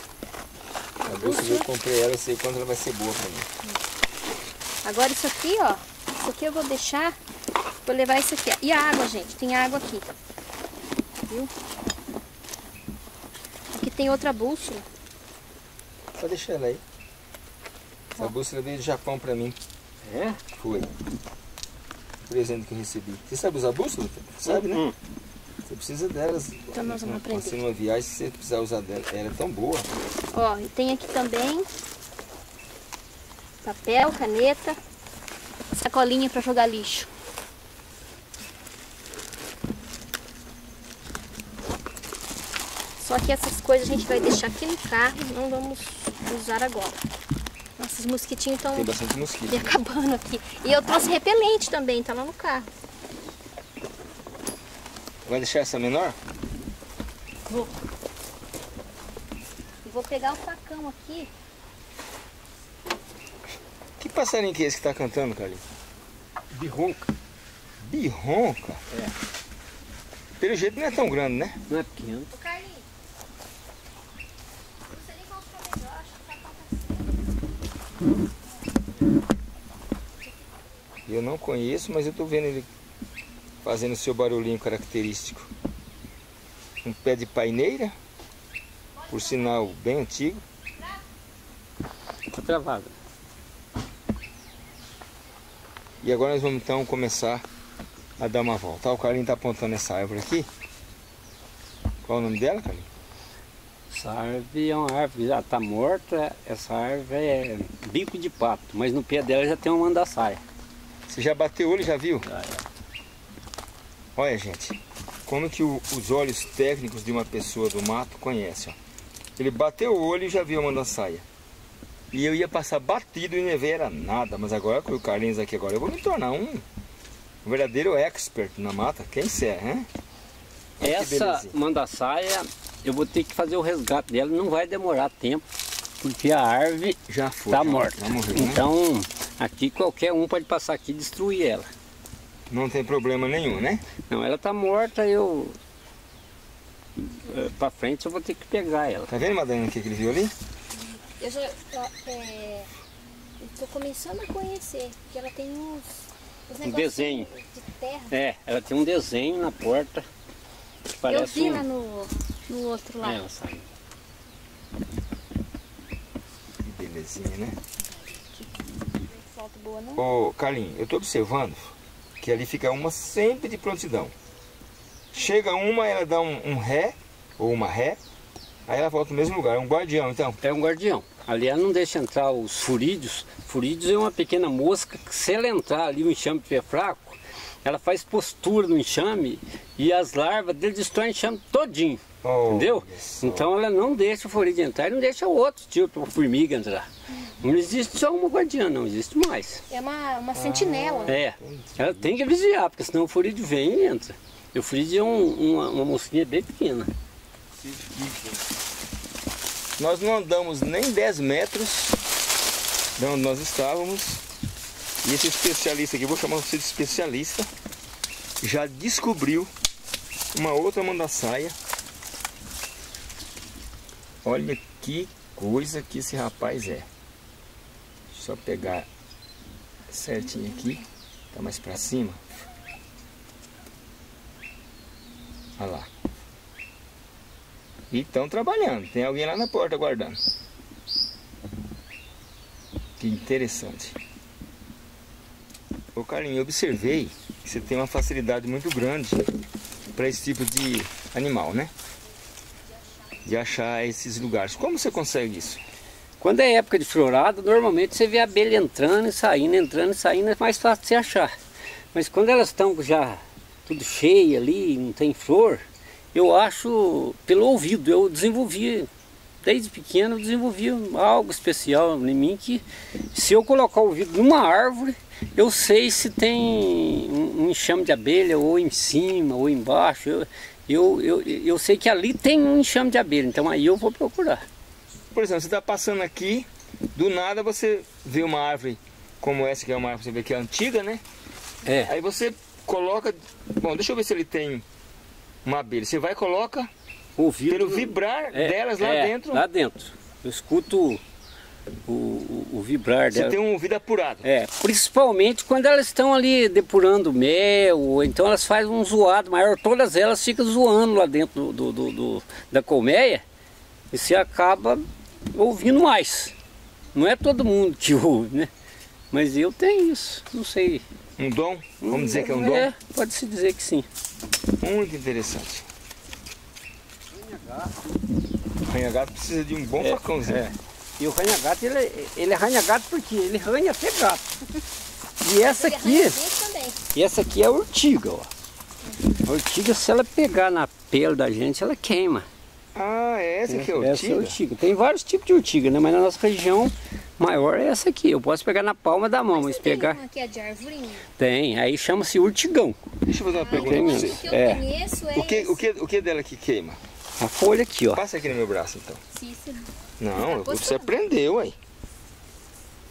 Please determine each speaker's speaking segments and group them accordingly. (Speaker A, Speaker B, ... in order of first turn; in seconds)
Speaker A: 1.0-3.5, 16.2-16.8, 18.2-19.6, 20.6-20.9, 22.3-24.8, 25.7-29.9, 48.7-49.8, 55.3-56.2, 64.0-65.6, 67.8-68.8, 70.4-71.6, 81.1-82.7, 83.6-85.5, 86.8-88.0, 89.1-90.4, 96.0-97.4, 98.2-100.5, 102.0-102.9, 111.1-112.3, 114.2-118.8, 119.4-121.2, 122.1-126.7, 127.4-129.9, 130.8-131.6, 137.1-138.6, 142.5-143.8, 149.1-150.3, 166.6-167.6, 170.0-174.1, 175.1-178.0, 178.7-180.4, 192.2-193.5, 200.3-202.1, 207.6-208.4, 209.8-212.0, 213.0-214.2, 215.0-217.5, 218.4-219.5, 220.3-221.6, 224.2-226.9, 228.1-228.9, 229.9-232.2, 235.6-235.9, 237.9-240.2, 243.0-244.0, 245.9-249.3, 249.9-251.7, 253.2-255.6, 285.1-291.0, 291.8-294.6, 295.4-296.7, 297.5-299.5, 303.1-304.3, 321.2-322.7, 324.6-325.7, 328.6-330.5, 342.8-344.4, 353.1-354.2, 355.1-356.8, 357.9-359.0, 360.0-361.6
Speaker B: 1.1-1.7, 4.8-7.2, 7.8-10.1, 13.7-14.8, 26.7-27.6, 30.3-31.7, 33.6-34.8, 35.7-37.1, 43.0-47.0, 47.8-48.9, 49.5-52.7, 59.9-61.3, 72.3-72.9, 74.9-77.1, 89.0-89.6, 151.1-152.7, 153.4-158.1, 161.1-163.2, 167.9-168.5, 169.1-170.0, 199.7-201.2, 335.4-336.8, 349.3-351.1, 353.3-355.6, 359.1-361.0
Speaker C: 20.1-20.4, 66.5-67.1, 71.7-72.3, 92.3-92.9, 103.9-110.4, 112.2-112.7, 130.8-135.4, 136.0-141.7, 144.1-145.6, 147.0-149.1, 156.6-157.3, 158.1-160.1, 161.0-161.7, 163.0-163.7, 180.4-196.9, 197.4-199.6, 201.1-206.9, 256.2-261.3, 261.9-268.9, 269.4-284.4, 291.6-291.9, 297.2-301.0, 301.9-303.4, 304.2-313.2, 313.9-316.4, 316.9-318.5, 319.1-320.8, 321.8-323.9, 327.1-328.0, 329.8-334.4, 335.2-336.2, 336.9-338.3, 339.2-342.3, 343.5-350.0, 351.2-352.9, 353.5-354.6, 357.2-358.0